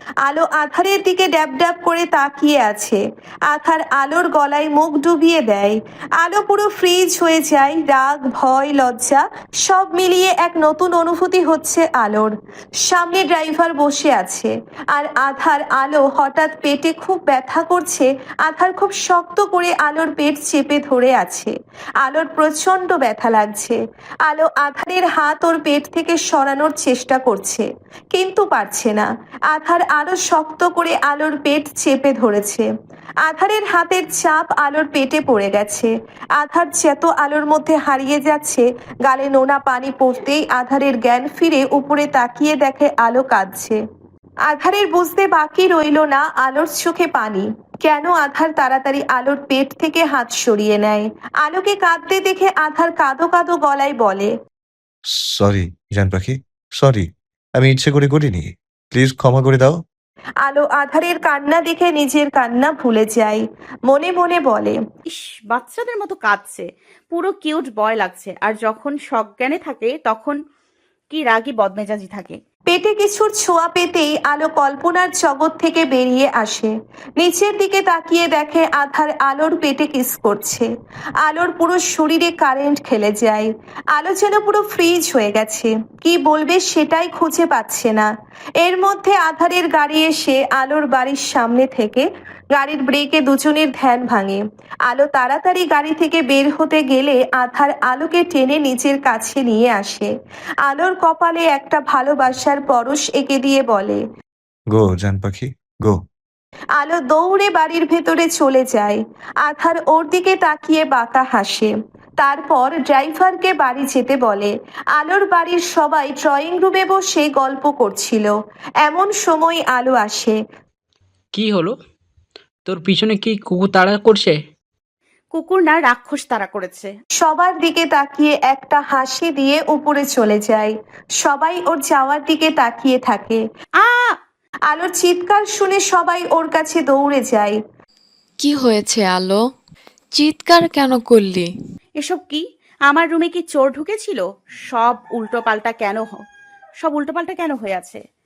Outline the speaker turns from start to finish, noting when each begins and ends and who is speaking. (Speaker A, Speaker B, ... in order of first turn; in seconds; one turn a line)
Speaker A: 0.2-12.3
Speaker A: 12.8-32.7
Speaker A: 33.2-43.8
Speaker A: 44.5-54.3
Speaker B: 55.1-59.8
Speaker A: 60.4-64.8
Speaker C: 65.1-70.3
Speaker C: 71.1-72.4
Speaker A: 72.7-80.7
Speaker A: 81.2-88.1
Speaker A: 88.6-100.1
Speaker A: 100.6-104.0
Speaker B: 104.7-106.0
Speaker A: 106.8-118.3
Speaker A: 118.8-120.4
Speaker D: 121.3-121.7
Speaker D: 122.7-124.4
Speaker C: 125.3-126.9
Speaker A: 127.2-133.4
Speaker C: 133.8-134.1
Speaker A: 134.7-137.6
Speaker E: 138.4-139.5
Speaker E: 140.1-141.5
Speaker C: 142.0-146.2
Speaker C: 146.8-148.0